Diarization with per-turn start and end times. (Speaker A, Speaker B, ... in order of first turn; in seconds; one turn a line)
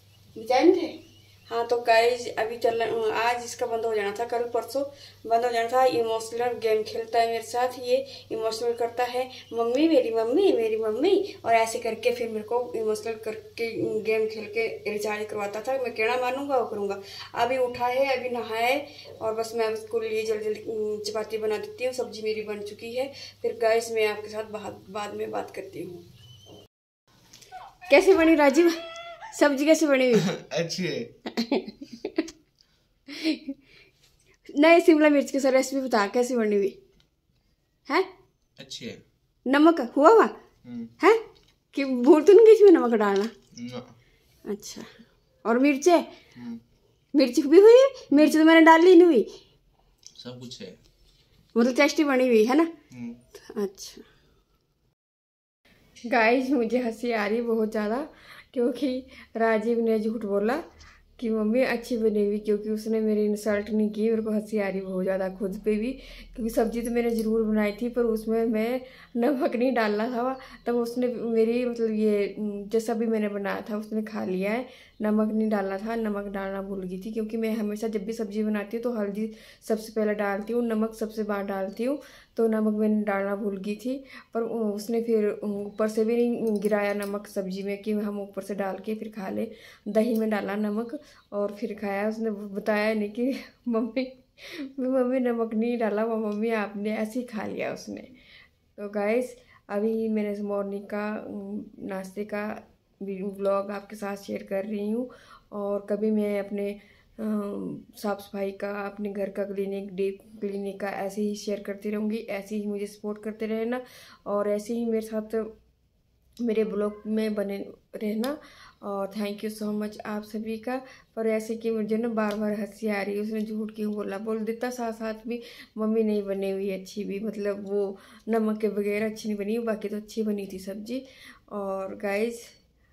Speaker A: 0.3-26.0
Speaker A: 27.9-30.3
Speaker B: 30.2-31.1
Speaker A: 31.3-32.2
Speaker A: 33.1-33.6
Speaker A: 34.5-36.8
Speaker B: 38.6-39.0
Speaker A: 39.5-40.3
Speaker B: 40.6-40.9
Speaker A: 41.0-43.3
Speaker B: 43.5-44.0
Speaker A: 44.5-44.9
Speaker A: 45.4-46.1
Speaker B: 46.4-46.6
Speaker A: 47.1-49.3
Speaker B: 50.2-50.8
Speaker A: 51.5-52.7
Speaker B: 52.9-53.2
Speaker A: 53.4-54.1
Speaker A: 56.0-60.6
Speaker A: 61.2-98.1
Speaker A: 98.8-115.5
Speaker A: 116.4-132.5